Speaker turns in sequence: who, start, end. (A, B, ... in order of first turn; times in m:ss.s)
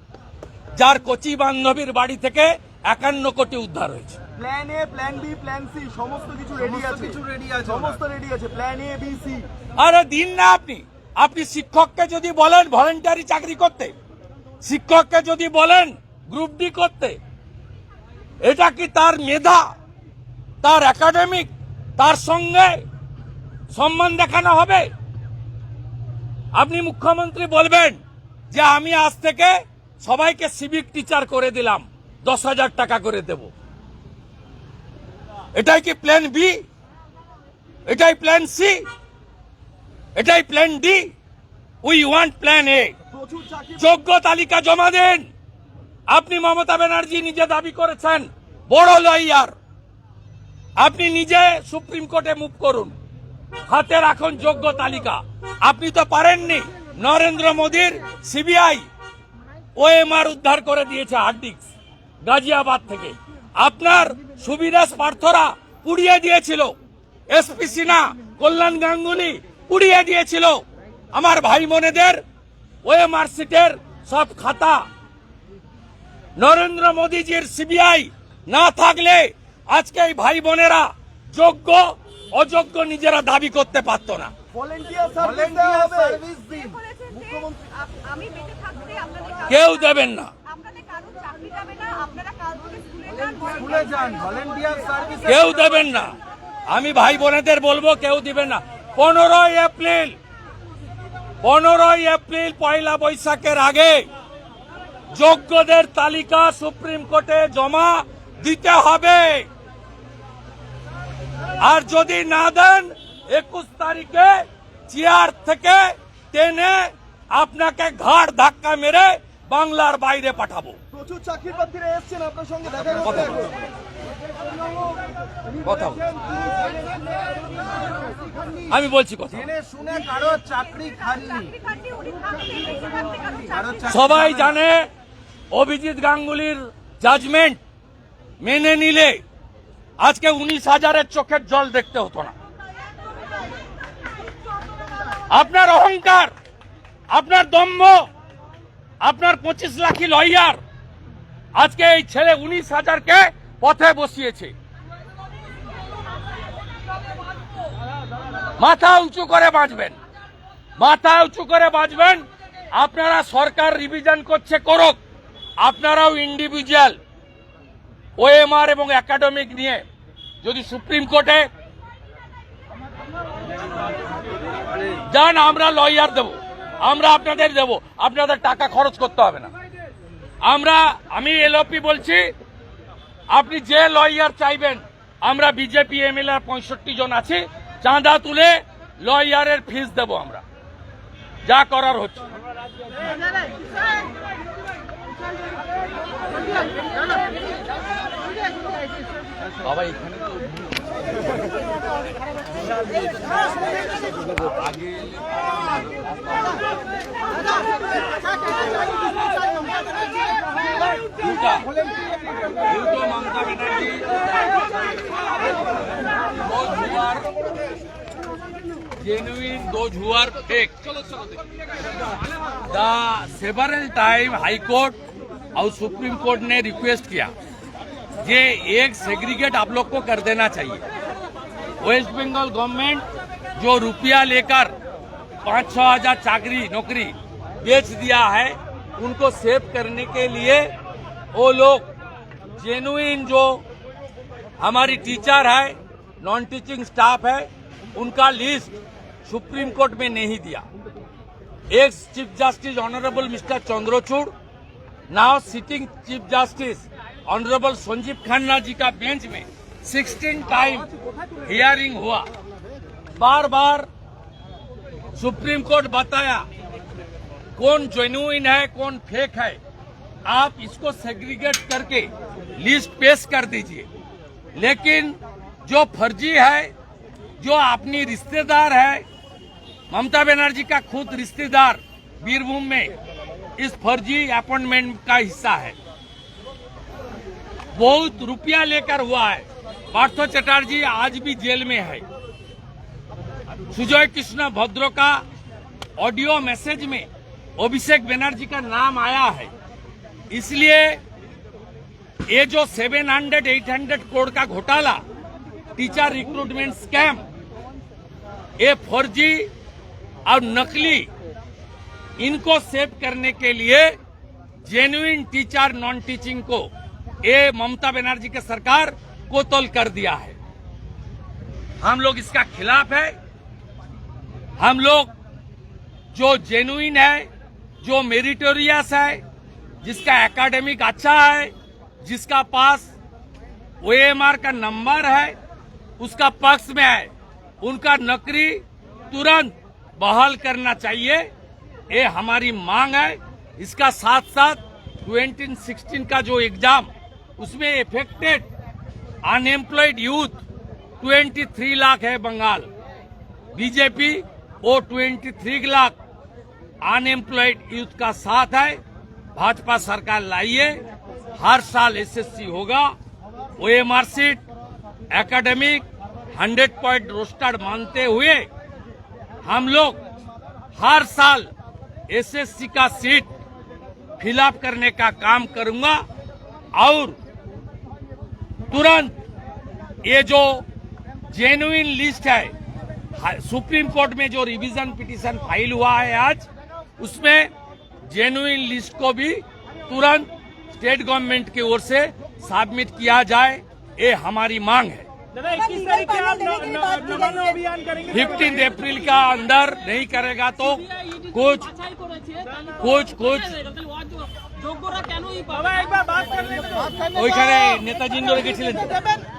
0:00.8-0:04.2 A
0:04.4-0:09.5 B
0:09.8-0:13.9 A
0:14.6-0:17.2 A
0:18.4-0:19.6 A
0:20.6-0:22.8 A
0:23.7-0:24.9 A
0:26.5-0:33.5 A
0:35.6-0:36.6 A
0:37.9-0:38.8 A
0:40.2-0:41.1 A
0:41.8-0:42.9 A
0:43.1-0:43.9 B
0:43.8-0:45.3 A
0:46.1-0:49.6 A
0:50.8-0:53.0 A
0:53.7-0:58.9 A
0:59.8-1:01.7 A
1:02.2-1:06.7 A
1:07.3-1:10.6 A
1:11.1-1:12.2 A
1:12.8-1:14.8 A
1:16.4-1:24.3 A
1:24.5-1:26.8 B
1:26.5-1:29.5 C
1:29.5-1:30.3 A
1:30.5-1:33.2 C
1:33.4-1:35.9 B
1:35.3-1:36.2 A
1:36.7-1:40.2 A
1:41.4-1:44.0 A
1:45.1-1:49.5 A
1:51.6-2:00.8 A
2:00.9-2:03.6 B
2:03.0-2:03.4 A
2:05.6-2:06.0 A
2:08.7-2:09.5 A
2:09.3-2:11.6 B
2:11.9-2:12.3 C
2:13.5-2:14.6 B
2:13.9-2:14.9 A
2:15.5-2:17.6 A
2:18.4-2:19.2 A
2:20.0-2:22.3 A
2:25.3-2:26.3 A
2:27.1-2:28.1 A
2:29.0-2:30.6 A
2:31.6-2:34.5 A
2:38.6-2:40.0 A
2:40.8-2:45.0 A
2:45.6-2:47.0 A
2:48.2-2:49.8 A
2:50.4-2:51.5 A
2:55.1-2:59.5 A
3:00.4-3:02.3 A
3:03.3-3:10.4 A
3:11.5-3:12.2 A
3:19.6-3:20.6 A
3:24.6-3:26.1 A
3:31.2-3:31.7 A
3:32.7-3:34.1 A
3:36.4-3:37.3 A
3:39.0-3:41.2 A
3:42.7-3:45.0 A
3:45.6-3:47.3 A
3:48.2-3:50.8 A
3:51.8-3:53.0 A
3:53.6-3:54.7 A
3:55.4-4:00.7 A
4:01.3-4:01.9 A
4:02.6-4:03.6 A
4:04.6-4:08.7 A
4:09.3-4:10.6 A
4:11.7-4:14.3 A
4:15.1-4:20.9 A
4:21.4-4:22.3 A
4:23.2-4:23.9 A
4:25.2-4:26.5 A
4:27.6-4:29.6 A
4:30.3-4:33.9 A
4:34.6-4:36.7 A
4:37.4-4:39.0 A
4:39.9-4:42.9 A
4:43.6-4:45.8 A
4:47.8-4:52.0 A
4:53.7-4:55.2 A
4:56.0-4:59.5 A
5:00.3-5:01.0 A
5:02.3-5:05.0 A
5:05.8-5:07.2 A
5:08.6-5:09.5 A
5:10.3-5:11.1 A
5:12.2-5:13.9 A
5:14.6-5:16.7 A
5:17.2-5:20.4 A
5:21.8-5:23.2 A
5:24.6-5:25.1 A
5:26.1-5:27.3 A
5:27.8-5:29.2 A
5:29.8-5:32.9 A
5:33.8-5:35.4 A
5:36.0-5:37.1 A
5:37.6-5:41.2 A
5:41.9-5:48.5 A
5:49.2-5:50.4 A
5:51.0-5:52.7 A
5:53.5-5:56.0 A
5:56.8-5:58.8 A
5:59.4-6:00.8 A
6:01.4-6:02.9 A
6:03.6-6:04.4 A
6:05.1-6:08.5 A
6:09.4-6:10.0 A
6:10.8-6:11.5 A
6:12.1-6:13.3 A
6:14.2-6:16.0 A
6:16.8-6:17.2 A
6:18.7-6:19.2 A
6:20.0-6:20.6 A
6:21.3-6:22.5 A
6:23.2-6:26.5 A
6:27.0-6:27.5 A
6:28.1-6:35.1 A
6:35.4-6:37.9 C
6:38.1-6:41.7 A
6:42.8-6:43.8 A
6:44.8-6:46.2 C
6:47.1-6:49.0 A